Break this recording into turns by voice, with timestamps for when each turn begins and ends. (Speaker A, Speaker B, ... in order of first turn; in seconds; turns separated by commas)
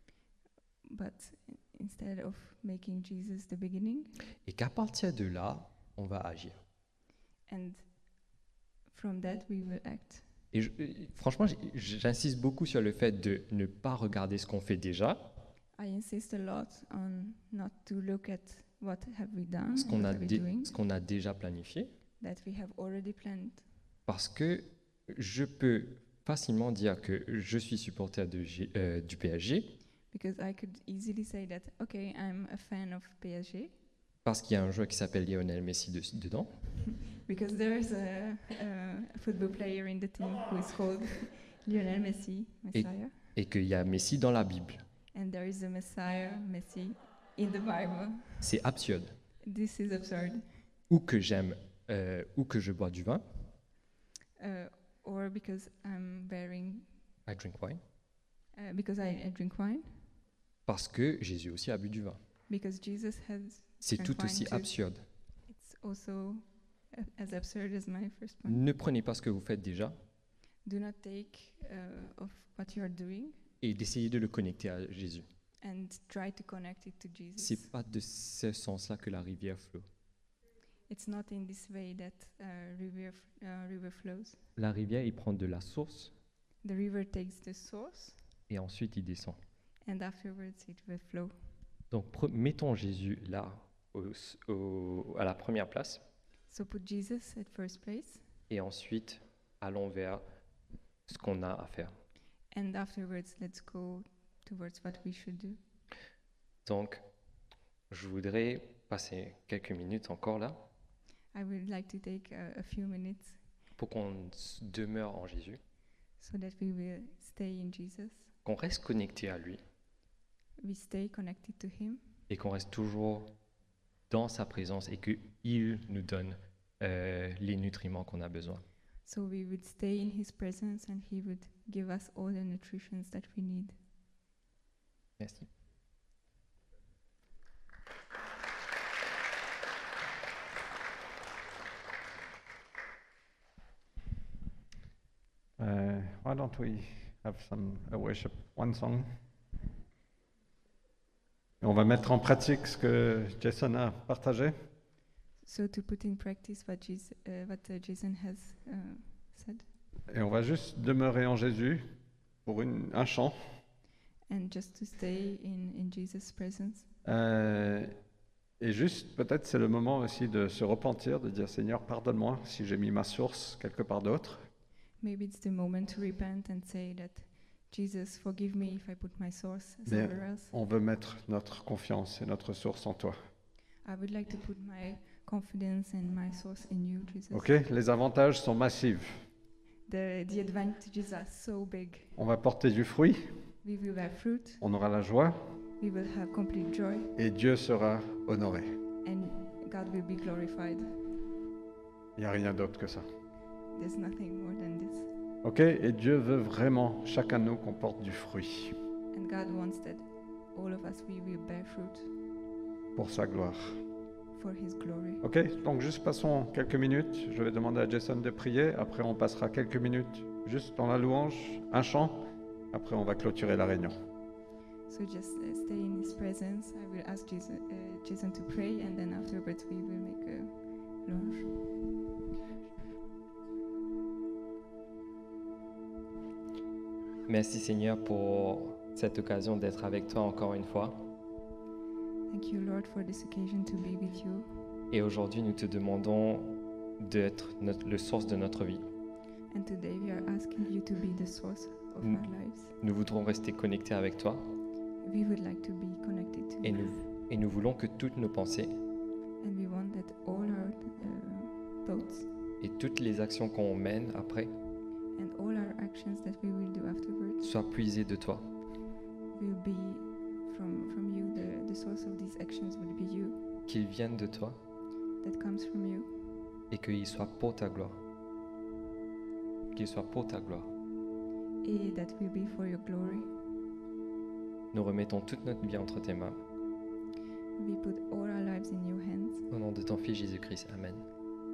Speaker A: 0.8-4.1, Speaker B: 4.4-6.6, Speaker A: 7.5-7.8, Speaker A: 8.9-10.2, Speaker B: 10.5-15.4, Speaker A: 15.8-20.7, Speaker B: 19.7-21.9, Speaker A: 22.2-23.6, Speaker B: 24.1-29.8, Speaker A: 30.1-33.7, Speaker B: 34.2-36.5, Speaker A: 37.1-43.1, Speaker B: 42.7-44.8, Speaker A: 45.1-48.4, Speaker B: 48.4-49.1, Speaker A: 49.4-50.4, Speaker B: 50.9-53.2, Speaker A: 54.4-56.9, Speaker B: 57.3-57.8, Speaker A: 58.5-59.9, Speaker B: 60.7-62.2, Speaker A: 62.5-64.7, Speaker B: 63.8-65.0, Speaker A: 65.5-68.6, Speaker B: 68.5-69.9, Speaker A: 70.6-73.4, Speaker B: 73.6-75.3, Speaker A: 75.6-77.7, Speaker B: 77.4-79.8, Speaker A: 80.9-84.4, Speaker B: 84.6-86.1, Speaker A: 86.6-88.2, Speaker B: 88.5-89.4, Speaker A: 89.8-91.3, Speaker B: 91.9-96.0, Speaker A: 96.5-98.2, Speaker B: 98.5-100.2, Speaker B: 101.1-101.9, Speaker A: 102.5-105.6, Speaker B: 106.6-107.0, Speaker B: 107.9-110.7, Speaker A: 111.3-113.4, Speaker B: 113.8-115.6, Speaker A: 116.2-118.3, Speaker B: 118.4-119.6, Speaker A: 120.6-122.0, Speaker B: 122.3-123.3, Speaker B: 124.1-128.6, Speaker A: 129.1-133.8, Speaker B: 135.2-135.5, Speaker C: 145.6-149.1, Speaker C: 151.6-154.5, Speaker A: 155.4-159.7, Speaker C: 160.1-161.8, Speaker C: 162.4-163.4, Speaker A: 164.3-166.9, Speaker C: 167.1-167.9, Speaker C: 168.6-174.4, Speaker A: 175.0-180.5, Speaker C: 179.9-183.2, Speaker A: 183.8-187.5, Speaker C: 187.3-189.2, Speaker A: 189.9-192.2, Speaker C: 192.2-193.2, Speaker A: 193.6-194.6, Speaker C: 194.6-195.4, Speaker A: 195.8-197.1, Speaker C: 197.2-198.7, Speaker A: 199.0-200.9, Speaker C: 202.2-203.1, Speaker A: 203.7-205.1, Speaker C: 205.4-208.8, Speaker A: 209.1-212.1, Speaker C: 212.9-213.8, Speaker A: 214.3-215.2, Speaker C: 215.2-223.9, Speaker A: 224.9-230.5, Speaker A: 231.0-231.5, Speaker B: 237.3-241.1, Speaker A: 242.3-244.5, Speaker B: 244.9-248.8, Speaker A: 249.5-252.7, Speaker B: 252.8-254.5, Speaker A: 255.0-257.0, Speaker B: 256.6-258.7, Speaker A: 259.4-262.3, Speaker B: 262.6-264.5, Speaker A: 265.1-267.5, Speaker B: 267.4-268.5, Speaker A: 269.3-273.4, Speaker B: 273.7-274.6, Speaker A: 275.2-276.1, Speaker B: 276.7-278.0, Speaker B: 279.7-280.7, Speaker A: 281.6-283.3, Speaker B: 284.7-286.4, Speaker A: 287.6-289.5, Speaker B: 289.5-291.1